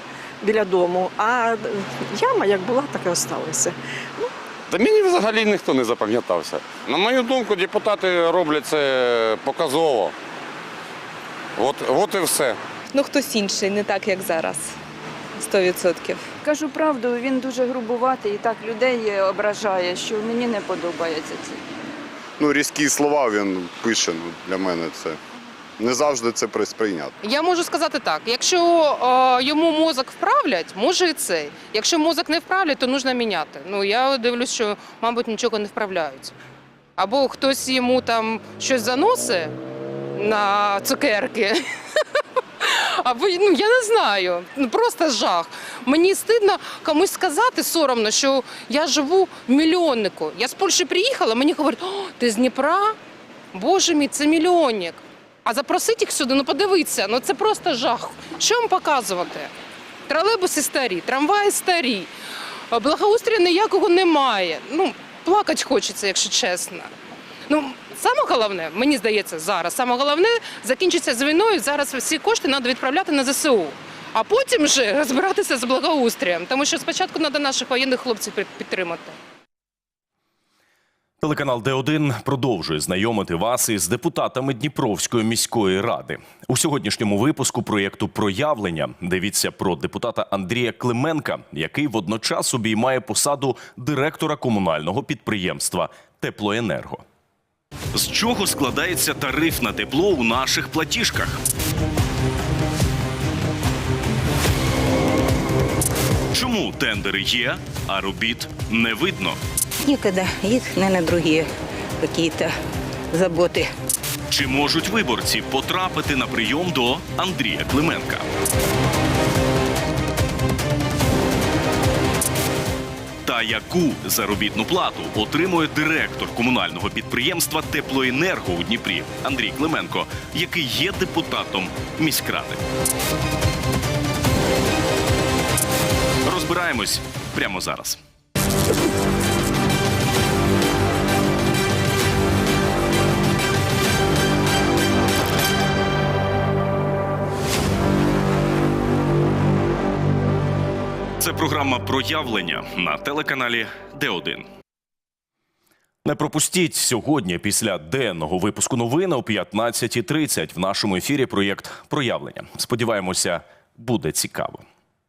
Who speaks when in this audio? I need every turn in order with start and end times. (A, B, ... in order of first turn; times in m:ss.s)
0:00.4-0:04.3 A
0:04.7-0:10.1 B
0:11.6-0:12.6 B
0:12.9-0:14.7 C
0:15.4-0:16.2 C
0:16.4-0:21.6 D
0:22.4-0:25.1 E
0:26.6-0:27.1 E
0:27.2-0:36.3 F
0:37.0-0:39.5 F
0:40.2-0:41.6 F
0:42.6-0:53.0 F
0:53.5-0:59.5 F
1:00.1-1:02.1 F
1:02.7-1:06.9 F
1:07.5-1:19.1 F
1:21.2-1:37.0 G
1:37.9-1:41.4 G
1:46.3-1:49.4 G
1:49.8-1:51.5 H
1:52.0-1:52.5 H
1:53.1-1:53.7 H
1:54.3-1:58.2 G
2:03.2-2:12.6 G
2:16.2-2:18.0 G
2:31.2-2:34.4 G
2:36.0-2:44.6 G